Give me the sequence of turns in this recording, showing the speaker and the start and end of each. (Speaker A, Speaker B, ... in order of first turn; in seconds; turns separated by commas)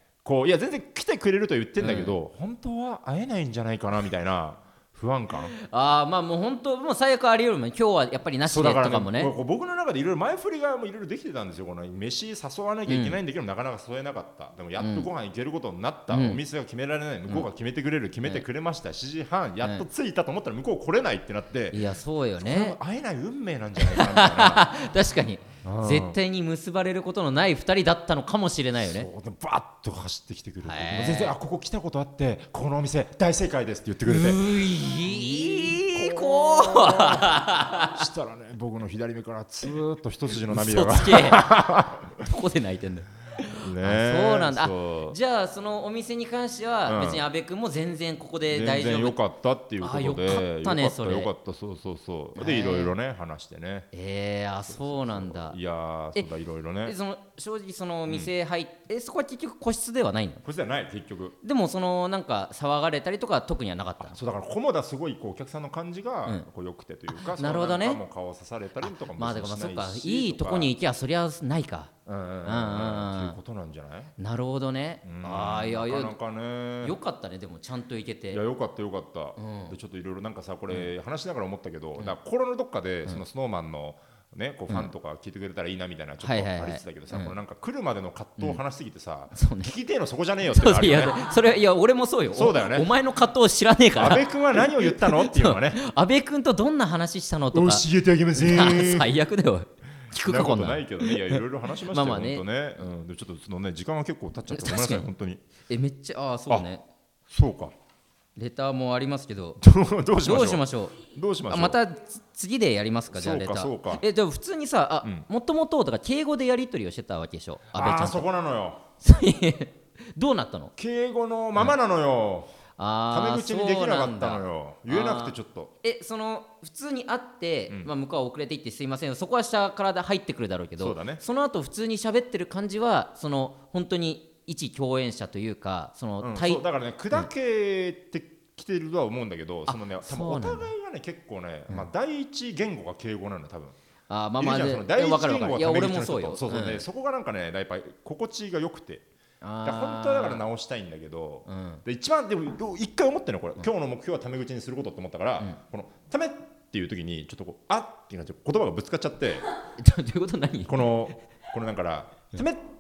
Speaker A: 0.2-5.5, Speaker B: 1.8-2.1, Speaker B: 5.6-9.3, Speaker A: 8.5-21.8, Speaker B: 12.9-13.2, Speaker B: 14.8-15.1, Speaker B: 16.1-16.4, Speaker B: 21.7-22.8, Speaker A: 22.4-24.7, Speaker B: 23.8-29.1, Speaker A: 25.6-26.2, Speaker A: 28.8-42.1, Speaker B: 30.6-31.4, Speaker B: 34.0-38.1, Speaker B: 40.4-41.5, Speaker B: 42.2-49.2, Speaker A: 43.6-45.2, Speaker A: 46.9-47.2, Speaker A: 48.5-53.9, Speaker B: 49.8-51.3, Speaker B: 52.4-52.9, Speaker B: 53.9-55.6, Speaker A: 54.7-57.0, Speaker B: 56.9-60.4, Speaker A: 60.4-61.4, Speaker B: 61.4-64.2, Speaker A: 64.0-70.7, Speaker B: 67.2-68.0, Speaker B: 68.8-71.9, Speaker A: 72.1-74.1, Speaker B: 72.5-73.4, Speaker B: 74.2-76.2, Speaker A: 75.0-77.0, Speaker B: 76.8-78.4, Speaker A: 78.3-91.2, Speaker B: 79.4-79.8, Speaker B: 86.2-87.3, Speaker B: 89.3-89.7, Speaker B: 90.5-97.8, Speaker A: 92.3-92.9, Speaker A: 94.0-95.8, Speaker A: 97.5-99.1, Speaker B: 98.4-102.5, Speaker A: 100.2-105.4, Speaker B: 104.5-105.1, Speaker B: 105.7-106.8, Speaker A: 107.3-107.7, Speaker B: 108.4-109.6, Speaker A: 109.6-111.8, Speaker B: 110.2-111.0, Speaker B: 111.5-118.3, Speaker A: 113.1-114.0, Speaker A: 117.7-118.8, Speaker B: 119.0-120.7, Speaker A: 120.8-122.5, Speaker B: 122.8-137.3, Speaker A: 123.1-125.7, Speaker A: 130.8-131.2, Speaker A: 136.2-143.8, Speaker B: 139.7-140.7, Speaker B: 144.1-146.8, Speaker A: 144.4-149.1, Speaker B: 149.4-150.4, Speaker A: 149.6-159.4, Speaker B: 151.5-151.8, Speaker B: 159.8-160.9, Speaker A: 160.7-162.6